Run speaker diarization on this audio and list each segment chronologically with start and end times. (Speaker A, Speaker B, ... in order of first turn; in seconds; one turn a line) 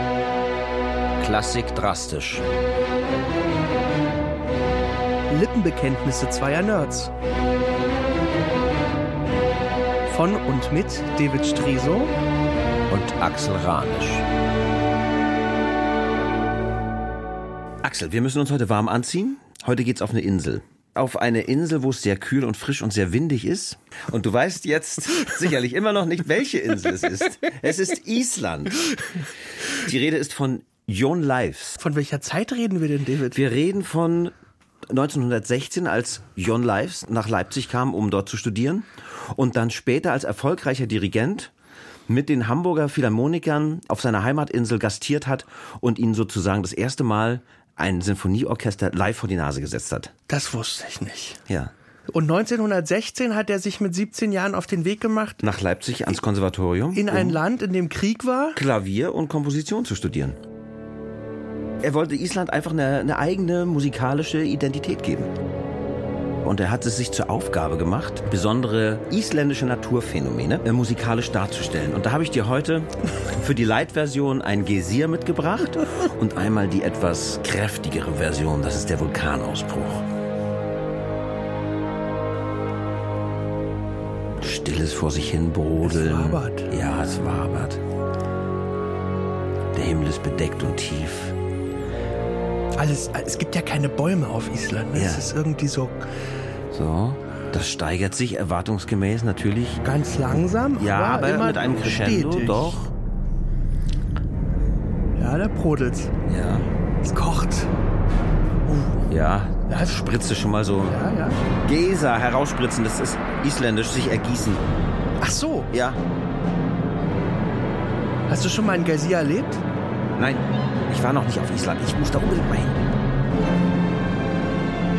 Speaker A: 1.2-2.4
Speaker B: 5.3-7.1
Speaker B: 10.1-12.1
Speaker A: 12.9-14.2
Speaker A: 17.8-28.9
Speaker A: 29.8-31.8
Speaker B: 31.8-33.4
Speaker A: 33.3-34.3
Speaker A: 34.9-41.5
Speaker A: 42.1-50.1
Speaker B: 50.3-51.4
Speaker B: 52.1-55.4
Speaker A: 55.4-57.4
Speaker B: 56.9-58.6
Speaker A: 58.5-60.4
Speaker A: 61.8-65.3
Speaker A: 66.4-72.9
Speaker A: 73.4-80.0
Speaker A: 84.4-87.8
Speaker B: 85.8-86.7
Speaker A: 89.7-91.3
Speaker B: 92.8-96.0
Speaker A: 94.9-95.3
Speaker A: 96.7-99.8
Speaker B: 99.8-102.7
Speaker A: 100.8-102.9
Speaker B: 105.2-106.1
Speaker A: 106.3-106.7
Speaker B: 107.0-107.7
Speaker B: 108.7-109.1
Speaker A: 109.1-111.0
Speaker B: 109.7-110.2
Speaker B: 110.8-111.4
Speaker A: 111.6-114.6
Speaker B: 115.2-115.7
Speaker A: 115.7-116.0
Speaker B: 118.3-119.6
Speaker A: 120.2-122.8